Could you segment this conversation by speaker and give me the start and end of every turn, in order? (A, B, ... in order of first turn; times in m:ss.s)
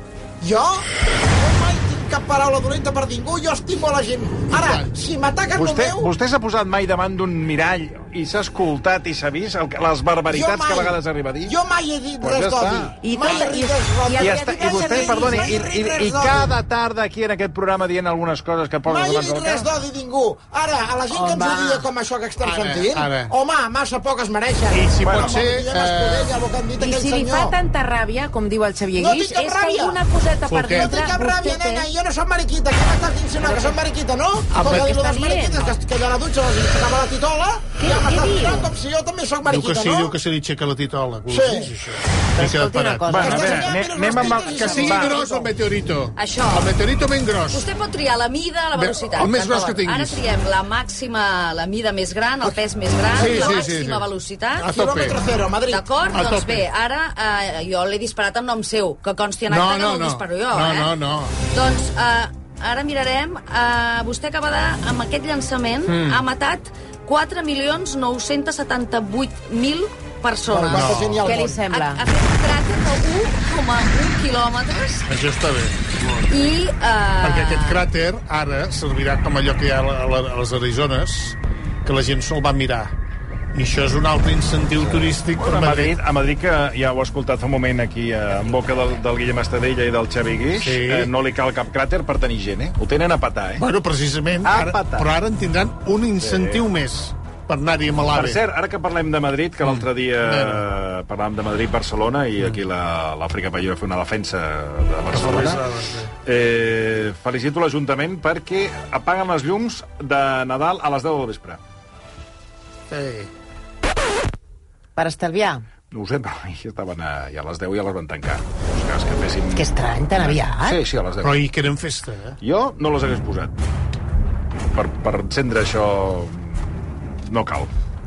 0:00.4-0:06.1 A
0:04.5-0:05.0 B
0:05.5-0:11.5 C
0:10.3-0:16.5 A
0:12.2-0:13.5 C
0:13.0-0:15.5 D
0:14.1-0:19.7 C
0:18.9-0:27.6 A
0:21.1-0:21.9 D
0:22.4-0:23.3 B
0:24.7-0:26.4 B
0:25.0-0:25.4 C
0:26.8-0:31.9 D
0:29.0-0:30.0 A
0:30.5-0:30.9 B
0:30.7-0:40.2 A
0:33.4-0:33.8 D
0:34.5-0:35.7 D
0:34.6-0:34.9 B
0:37.8-0:38.7 D
0:39.5-0:43.7 B
0:41.3-0:41.7 A
0:42.4-0:43.6 D
0:43.1-0:45.2 C
0:43.1-0:45.2 A
0:44.2-0:44.4 D
0:44.5-0:47.7 B
0:46.2-0:46.8 E
0:47.5-0:54.7 E
0:48.8-0:50.2 B
0:53.2-0:53.7 A
0:53.2-0:55.2 B
0:54.7-0:55.9 A
0:55.7-1:00.9 E
0:56.1-0:56.7 B
0:59.5-1:01.3 B
1:01.5-1:11.1 E
1:05.9-1:06.2 B
1:10.5-1:11.6 A
1:10.7-1:11.2 B
1:11.2-1:12.0 D
1:11.6-1:15.1 E
1:15.1-1:16.3 B
1:16.3-1:17.8 E
1:17.2-1:22.9 B
1:23.6-1:25.9 B
1:24.8-1:33.7 C
1:30.6-1:31.1 B
1:33.6-1:38.4 B
1:34.4-1:35.1 C
1:36.2-1:36.7 C
1:38.1-1:45.7 C
1:39.6-1:40.6 B
1:45.1-1:46.1 B
1:46.2-1:51.6 C
1:52.9-1:53.3 B
1:55.0-1:55.6 D
1:55.9-2:01.4 C
1:59.5-2:00.8 D
2:01.2-2:02.4 B
2:02.4-2:03.5 C
2:04.7-2:07.7 C